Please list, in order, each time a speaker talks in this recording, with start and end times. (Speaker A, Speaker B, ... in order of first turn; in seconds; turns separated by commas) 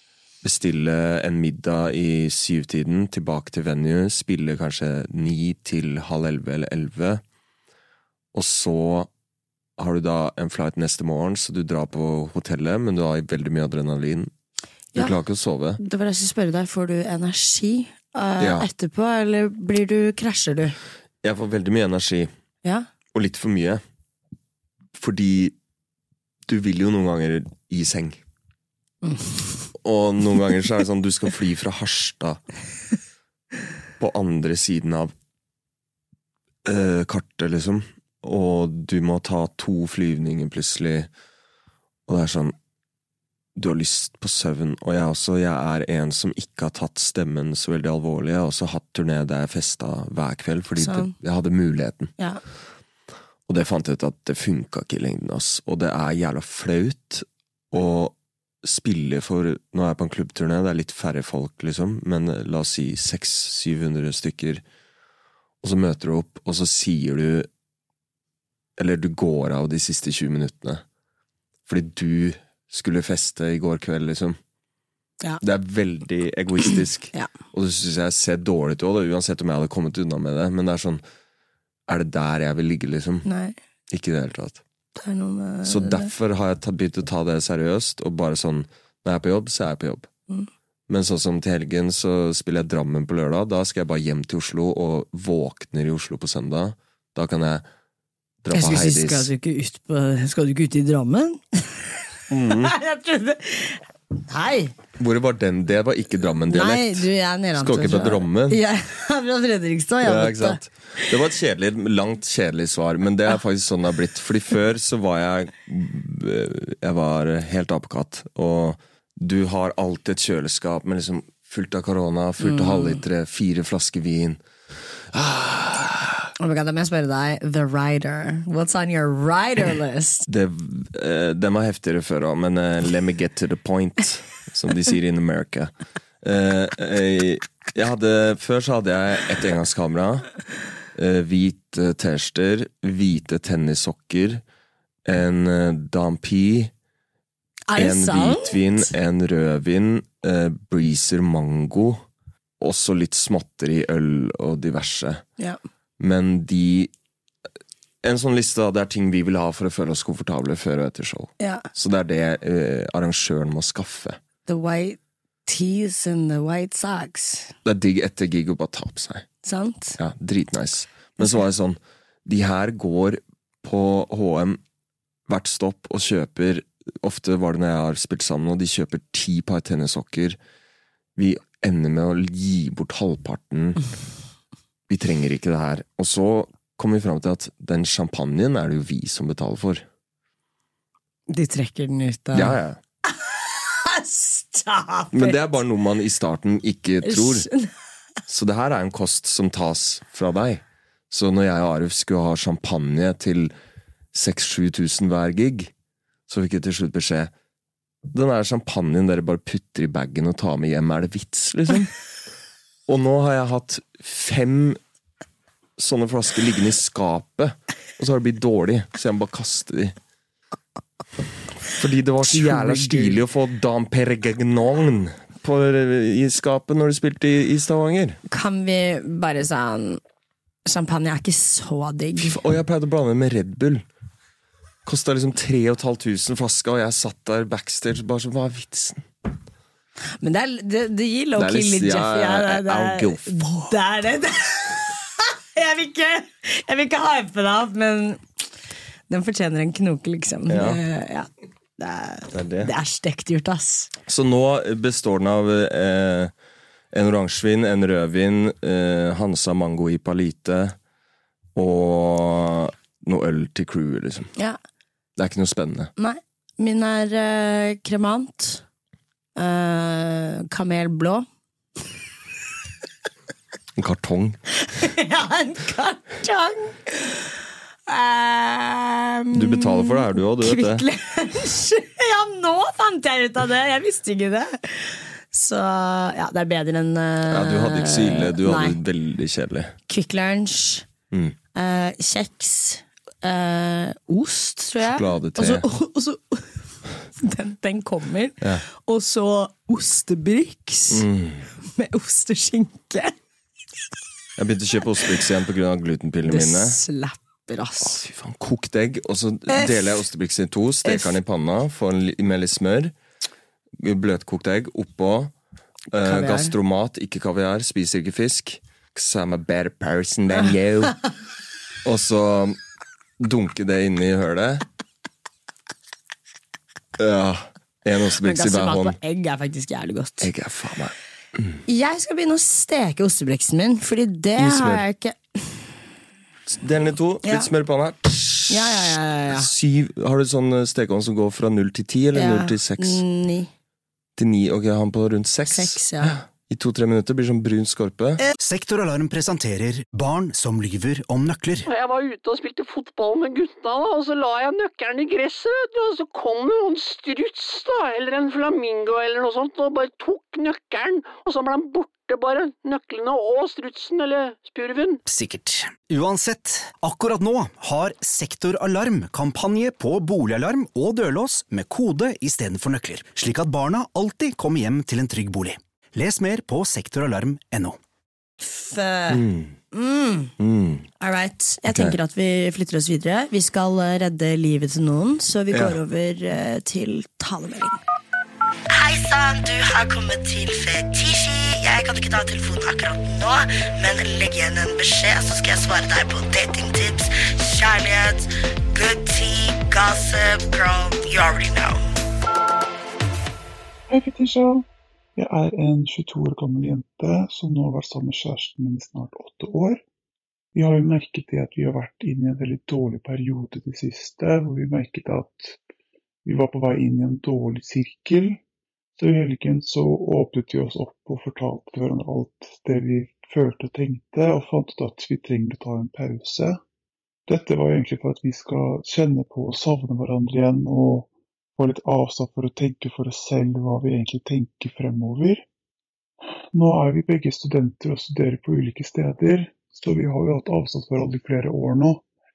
Speaker A: 0.4-7.2, Speaker A: 8.3-9.1, Speaker A: 9.8-14.3, Speaker A: 14.9-15.8, Speaker B: 15.8-20.8, Speaker A: 18.4-18.7, Speaker A: 21.2-22.3, Speaker A: 23.1-23.8, Speaker A: 24.9-25.6, Speaker A: 26.5-28.2, Speaker B: 29.0-29.6, Speaker A: 29.8-32.4, Speaker A: 34.0-35.1, Speaker A: 36.6-41.1, Speaker A: 42.1-42.6, Speaker A: 43.6-52.1, Speaker B: 50.8-51.1, Speaker A: 53.5-64.6, Speaker A: 65.6-67.5, Speaker A: 68.8-70.8, Speaker A: 71.7-74.4, Speaker A: 75.4-81.0, Speaker A: 81.9-83.3, Speaker B: 83.2-83.6, Speaker A: 83.9-84.6, Speaker B: 85.0-86.1, Speaker A: 85.6-90.1, Speaker A: 90.9-97.7, Speaker A: 98.4-99.3, Speaker B: 98.5-104.8, Speaker A: 102.3-102.7, Speaker A: 105.0-108.6, Speaker B: 106.5-111.0, Speaker A: 110.0-124.4, Speaker B: 122.4-123.0, Speaker A: 125.1-126.3, Speaker B: 126.4-130.3, Speaker A: 130.3-140.3, Speaker A: 140.9-144.4, Speaker A: 145.1-146.7, Speaker B: 147.7-148.9, Speaker A: 147.8-152.0, Speaker A: 152.6-155.2, Speaker A: 156.0-156.9, Speaker A: 158.0-164.2, Speaker B: 161.4-161.7, Speaker B: 164.5-167.6, Speaker A: 167.7-169.3, Speaker B: 169.4-170.0, Speaker A: 170.0-174.6, Speaker A: 175.3-180.4, Speaker A: 181.2-183.8, Speaker A: 184.9-189.8, Speaker B: 191.3-192.6, Speaker A: 192.3-192.8, Speaker B: 193.1-195.4, Speaker A: 195.1-197.5, Speaker B: 197.0-197.7, Speaker A: 198.3-203.5, Speaker A: 204.1-205.7, Speaker A: 206.3-207.3, Speaker A: 208.1-211.9, Speaker A: 212.9-214.8, Speaker A: 215.8-219.9, Speaker A: 221.7-228.2, Speaker B: 222.3-223.2, Speaker B: 228.3-230.0, Speaker B: 230.7-232.4, Speaker A: 232.2-233.8, Speaker A: 234.8-239.1, Speaker B: 240.2-248.2, Speaker A: 241.4-243.7, Speaker B: 249.1-253.9, Speaker A: 250.5-250.8, Speaker A: 252.3-252.7, Speaker A: 254.1-256.3, Speaker A: 256.9-260.8, Speaker A: 261.6-264.3, Speaker A: 265.2-265.9, Speaker B: 266.0-268.6, Speaker B: 269.4-271.3, Speaker A: 273.8-274.4, Speaker B: 274.6-277.3, Speaker B: 277.9-288.8, Speaker A: 279.3-280.9, Speaker A: 287.3-289.8, Speaker B: 289.9-290.9, Speaker B: 291.6-296.6, Speaker A: 294.8-295.7, Speaker B: 297.2-301.1, Speaker A: 300.9-301.5, Speaker B: 301.6-303.1, Speaker A: 304.4-306.8, Speaker B: 306.3-308.0, Speaker A: 307.8-312.9, Speaker B: 309.5-310.0, Speaker B: 310.9-311.1, Speaker A: 313.8-315.3, Speaker A: 315.9-321.0, Speaker B: 316.0-316.5, Speaker A: 321.8-322.6, Speaker A: 323.2-324.6, Speaker A: 327.0-329.0, Speaker B: 328.2-330.3, Speaker A: 330.2-331.6, Speaker B: 331.7-335.7, Speaker A: 334.4-334.8, Speaker A: 336.5-343.0, Speaker B: 338.5-339.5, Speaker B: 342.1-343.5, Speaker A: 344.2-348.2, Speaker B: 345.5-346.2, Speaker C: 348.4-351.7, Speaker D: 351.7-365.0, Speaker C: 365.1-377.8, Speaker B: 378.4-380.3, Speaker A: 379.1-379.6, Speaker A: 380.4-380.9, Speaker B: 381.0-387.8, Speaker A: 381.7-382.0, Speaker A: 385.5-385.8, Speaker E: 388.7-398.2, Speaker B: 389.1-389.7, Speaker E: 398.8-401.8, Speaker F: 403.9-409.8, Speaker F: 410.6-415.6, Speaker F: 416.2-418.4, Speaker F: 419.0-426.6, Speaker F: 427.3-435.4, Speaker F: 436.5-442.0